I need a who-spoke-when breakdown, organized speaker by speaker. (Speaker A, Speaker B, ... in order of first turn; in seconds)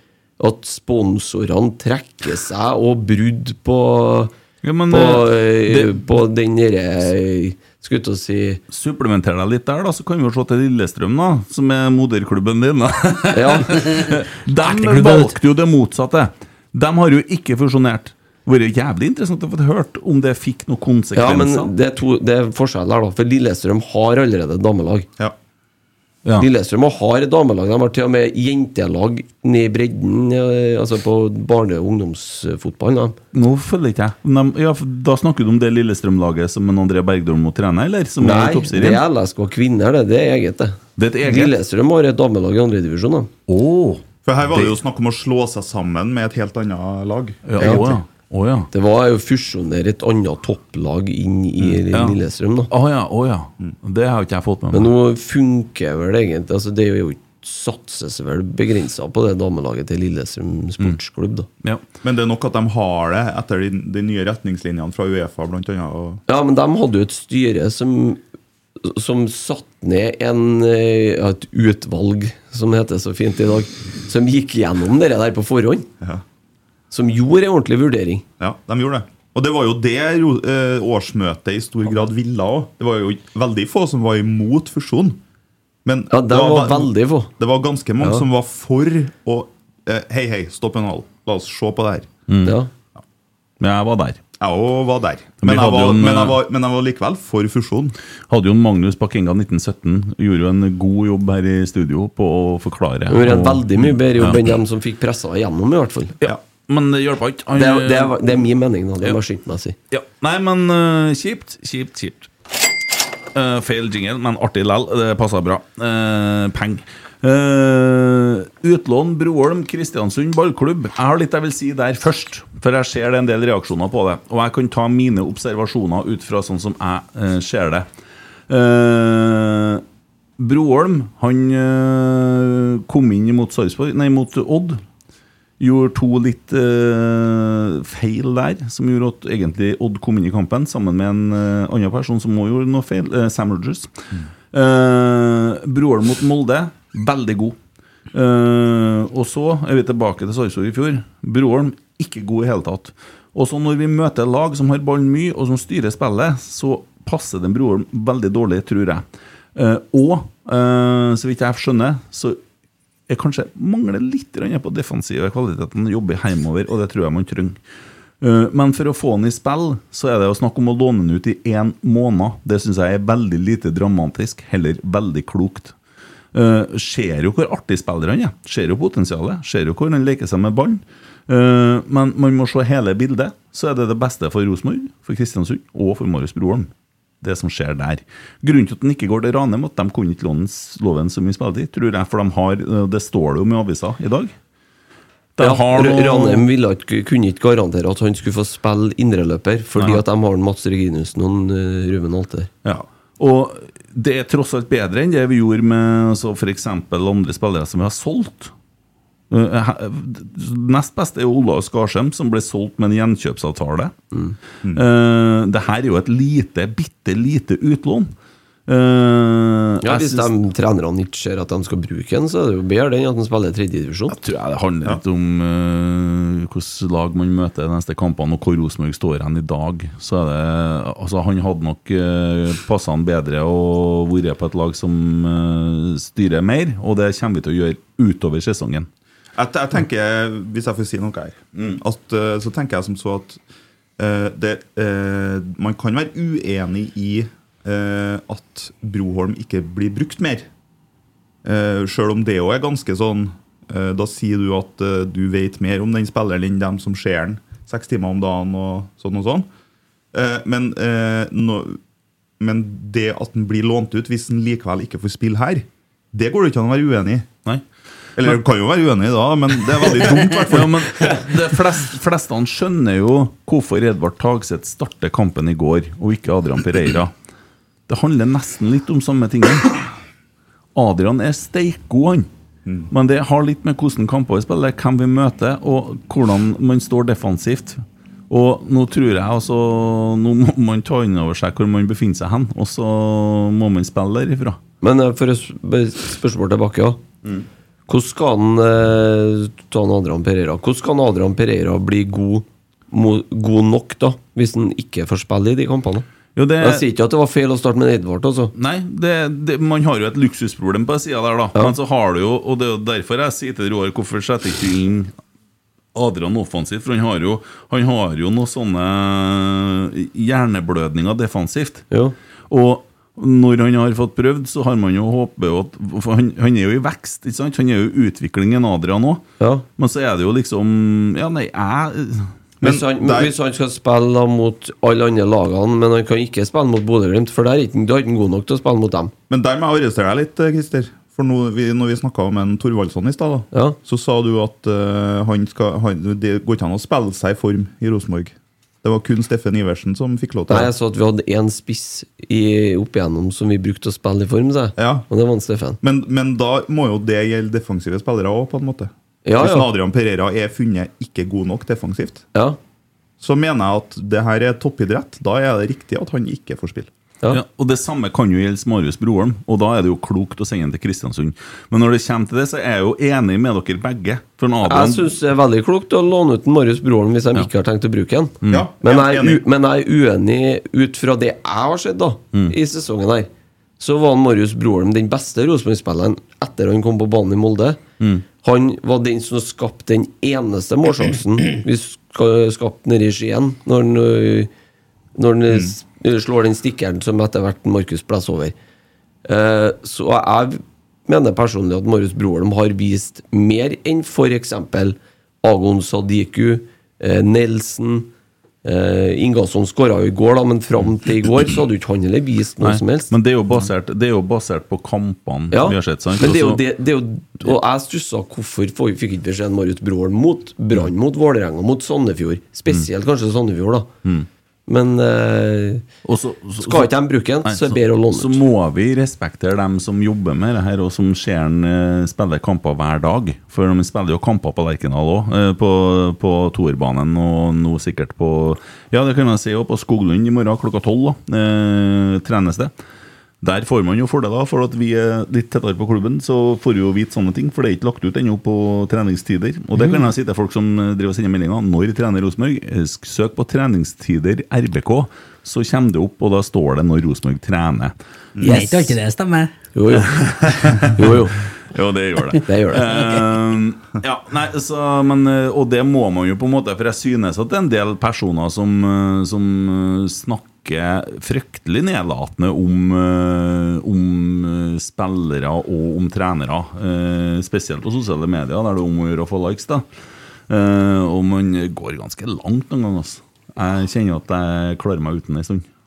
Speaker A: 0.4-4.3, 4.9-8.6, 13.3-13.8, 21.1-25.1, 26.4-33.2, 38.2-43.3, 47.6-48.0, 48.7-52.7, 54.7-61.5, 66.3-68.2, 68.8-75.9, 76.9-78.2, 86.1-87.3, 92.5-92.7, 103.1-106.2, 107.6-109.8, 195.4-202.5, 219.8-224.2, 294.8-297.0, 297.9-306.1, 306.6-308.5, 329.4-329.7, 332.6-339.1, 343.5-343.8, 350.5-355.8, 359.2-359.7, 374.6-383.3, 383.8-387.8, 388.4-394.5, 395.2-398.6, 399.2-408.1, 408.6-413.1, 415.5-423.9, 424.7-425.9, 426.6-428.4, 459.7-460.2, 460.9-461.4, 462.4-462.9
Speaker B: 4.6-6.0, 8.7-21.7, 33.3-39.0, 41.0-41.5, 43.5-44.0, 47.5-48.7, 51.9-52.2, 52.7-54.9, 92.3-92.6, 93.6-94.2, 95.4-96.4, 98.3-104.5, 106.2-108.3, 109.9-112.3, 113.3-127.9, 128.5-129.8, 130.4-134.8, 135.6-143.9, 144.5-147.6, 148.1-159.0, 159.6-162.4, 163.1-167.6, 168.2-175.7, 176.3-194.3, 195.4-196.5, 202.7-208.5, 209.3-213.9, 214.7-218.1, 218.7-220.3, 224.1-238.9, 270.4-277.1, 277.9-279.8, 280.7-282.3, 282.9-294.6, 306.4-306.9, 308.6-315.1, 315.9-321.8, 322.5-329.2, 329.8-332.3, 367.3-375.1, 412.6-416.6, 426.1-426.9, 427.4-442.7, 443.4-457.9, 460.0-461.0, 461.7-479.9, 480.5-485.7
Speaker C: 13.8-14.1, 14.6-15.3, 458.4-459.5
Speaker D: 44.2-47.7, 62.0-66.2, 78.4-85.2, 85.8-92.1, 94.4-98.0, 239.4-243.4, 244.0-250.5, 251.4-259.5, 260.1-261.8, 262.4-267.4, 268.2-271.0, 332.6-333.3, 339.3-350.7, 354.8-355.1, 355.8-362.2, 363.2-366.9, 378.5-379.4